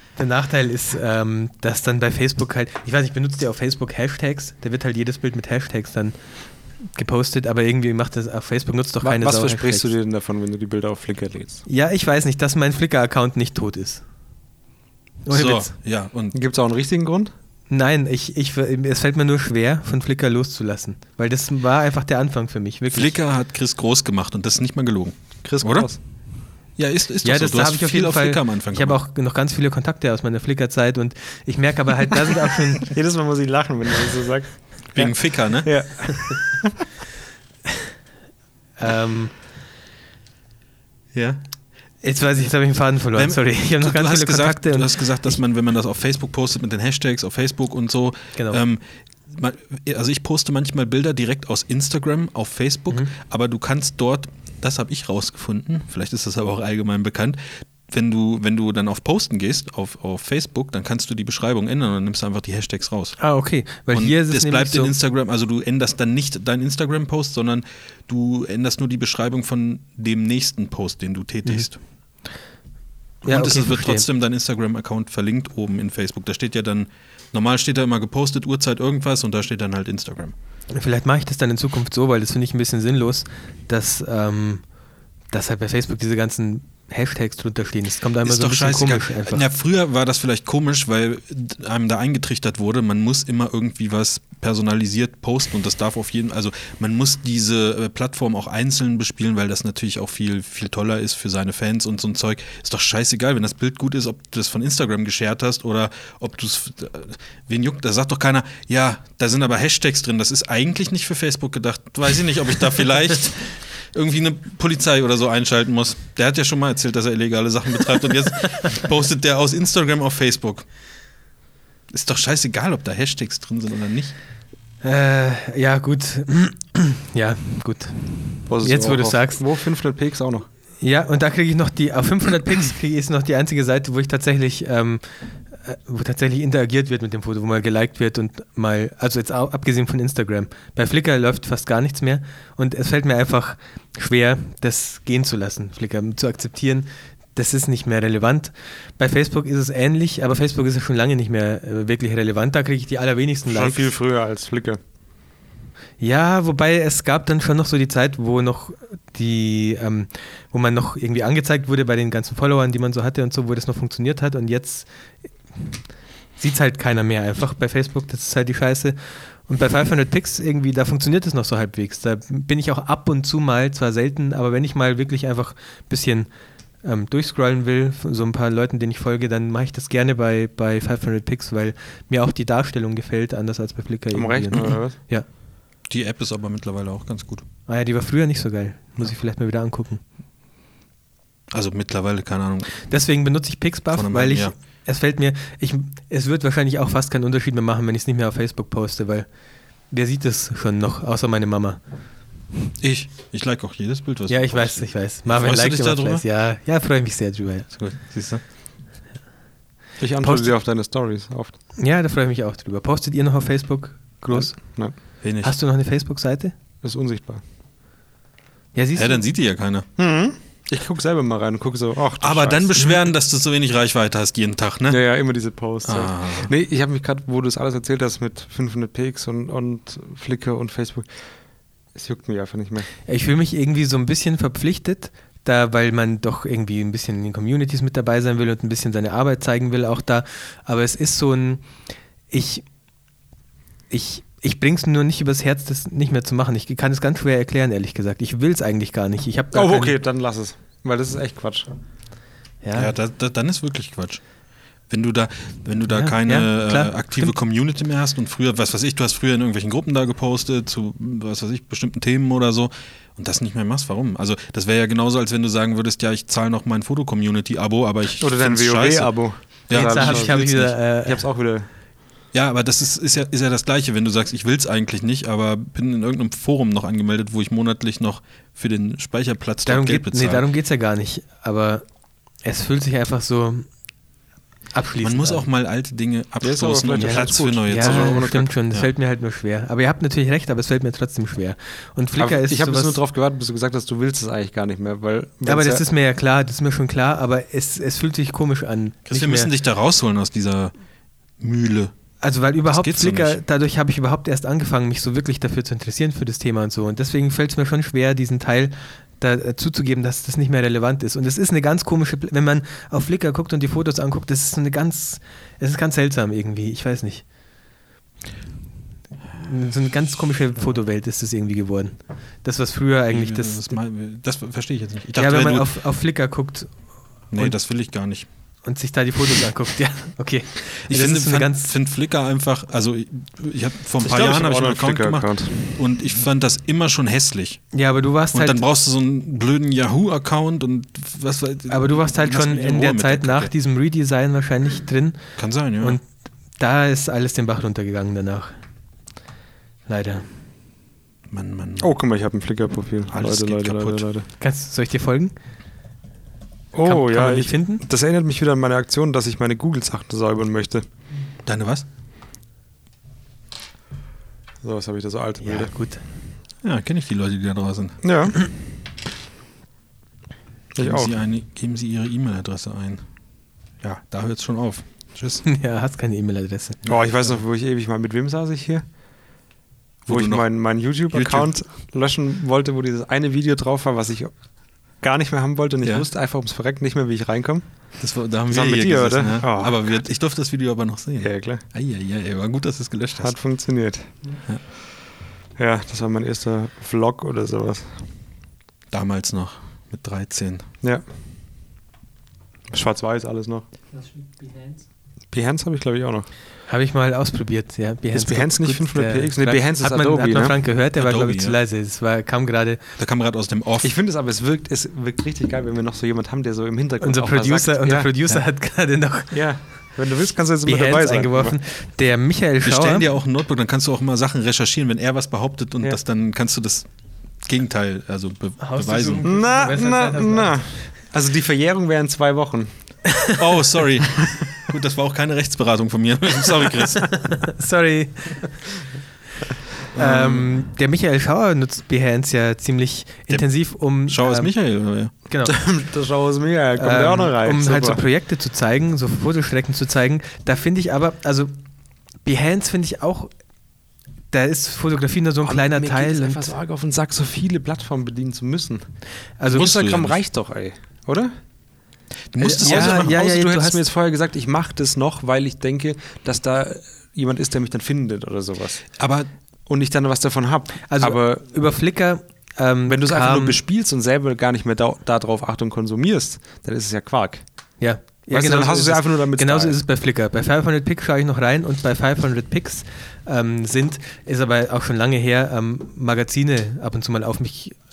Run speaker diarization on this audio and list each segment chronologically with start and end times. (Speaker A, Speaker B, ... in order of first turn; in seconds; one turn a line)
Speaker A: 0.2-6.2
Speaker A: 6.9-9.9
Speaker B: 9.0-11.6
Speaker A: 11.7-14.0
Speaker A: 15.2-15.7
Speaker C: 15.3-16.4
Speaker B: 16.3-17.3
Speaker A: 17.7-23.1
Speaker C: 22.9-25.9
Speaker B: 25.4-26.0
Speaker C: 26.8-29.0
Speaker A: 27.2-32.9
Speaker B: 32.8-36.8
Speaker C: 34.9-35.7
Speaker A: 38.8-39.3
Speaker C: 41.1-41.4
Speaker A: 42.0-45.4
Speaker C: 43.1-63.2
Speaker A: 63.2-64.9
Speaker C: 63.9-71.8
Speaker C: 73.2-80.3
Speaker A: 73.2-74.0
Speaker A: 80.7-84.6
Speaker A: 85.3-89.4
Speaker C: 88.2-120.7
Speaker C: 121.9-124.1
Speaker A: 124.8-129.4
Speaker B: 128.5-130.5
Speaker A: 130.8-153.9
Speaker B: 153.4-154.8
Speaker A: 156.0-164.9
Speaker A: 166.4-176.3
Speaker A: 176.8-185.2
Speaker B: 184.1-185.0
Speaker C: 185.9-187.4
Speaker A: 187.7-190.0
Speaker C: 191.5-192.8
Speaker A: 192.8-199.3
Speaker C: 193.9-194.5
Speaker A: 199.9-201.8
Speaker C: 202.8-206.2
Speaker A: 204.3-207.7
Speaker C: 207.7-208.4
Speaker B: 210.0-211.6
Speaker A: 210.2-210.5
Speaker A: 211.8-214.8
Speaker B: 214.3-214.9
Speaker C: 215.2-215.5
Speaker A: 215.4-216.5
Speaker B: 216.8-217.4
Speaker A: 218.7-219.2
Speaker C: 218.9-219.8
Speaker B: 220.0-222.9
Speaker C: 222.2-225.0
Speaker B: 224.9-231.2
Speaker C: 225.8-226.5
Speaker B: 231.9-232.9
Speaker A: 233.1-241.7
Speaker A: 242.3-242.6
Speaker A: 243.9-249.9
Speaker B: 249.5-251.7
Speaker A: 252.6-252.9
Speaker C: 252.7-254.2
Speaker C: 254.9-270.8
Speaker A: 255.9-257.3
Speaker B: 268.2-270.4
Speaker A: 269.7-271.2
Speaker B: 271.0-271.7
Speaker C: 272.3-280.4
Speaker A: 279.6-281.8
Speaker A: 282.4-283.7
Speaker A: 284.7-285.4
Speaker C: 285.0-288.9
Speaker B: 286.4-288.4
Speaker A: 287.0-293.0
Speaker B: 292.2-295.8
Speaker A: 295.4-299.5
Speaker C: 299.1-300.7
Speaker C: 301.4-301.9
Speaker A: 302.2-317.2
Speaker C: 302.6-303.4
Speaker A: 319.3-323.8
Speaker C: 323.1-325.7
Speaker A: 325.1-326.7
Speaker C: 327.3-328.3
Speaker A: 328.6-331.7
Speaker C: 330.9-337.6
Speaker B: 334.0-335.7
Speaker A: 337.7-338.6
Speaker C: 338.3-343.5
Speaker A: 341.7-346.0
Speaker C: 345.4-346.0
Speaker A: 346.6-348.5
Speaker A: 349.9-350.3
Speaker C: 351.3-351.9
Speaker B: 351.8-354.3
Speaker C: 353.1-354.1
Speaker A: 354.4-355.3
Speaker B: 356.7-360.8
Speaker A: 356.8-357.8
Speaker C: 361.4-361.8
Speaker B: 364.6-365.7
Speaker A: 365.4-366.0
Speaker C: 366.6-368.0
Speaker B: 368.0-368.4
Speaker B: 370.7-371.1
Speaker C: 370.8-373.0
Speaker C: 373.8-375.4
Speaker A: 375.4-376.8
Speaker B: 376.9-378.8
Speaker C: 380.1-381.5
Speaker B: 380.1-384.4
Speaker B: 385.0-387.7
Speaker C: 388.0-393.3
Speaker B: 388.5-389.9
Speaker B: 391.2-391.6
Speaker B: 393.2-394.1
Speaker B: 395.6-398.0
Speaker C: 398.9-400.6
Speaker B: 402.7-403.6
Speaker B: 405.3-406.3
Speaker A: 406.7-412.8
Speaker B: 408.1-410.6
Speaker C: 411.0-411.6
Speaker C: 413.0-413.9
Speaker B: 413.8-418.1
Speaker A: 417.0-419.4
Speaker B: 419.3-421.6
Speaker A: 420.6-423.1
Speaker C: 422.6-426.9
Speaker C: 427.4-429.3
Speaker A: 428.6-430.7
Speaker B: 429.2-432.7
Speaker A: 433.1-433.4
Speaker C: 433.4-437.3
Speaker A: 437.1-438.6
Speaker C: 439.9-440.6
Speaker A: 439.9-444.5
Speaker C: 443.3-445.1
Speaker A: 445.3-445.5
Speaker B: 445.4-448.0
Speaker A: 446.8-451.5
Speaker A: 452.2-453.3
Speaker A: 454.3-456.5
Speaker B: 455.4-458.8
Speaker A: 459.4-459.7
Speaker B: 459.5-461.3
Speaker C: 459.5-460.2
Speaker C: 462.3-463.1
Speaker A: 462.4-463.8
Speaker B: 462.4-468.9
Speaker C: 469.0-469.3
Speaker B: 469.6-471.4
Speaker A: 470.9-473.6
Speaker B: 472.9-477.4
Speaker A: 477.8-487.8
Speaker B: 478.3-479.8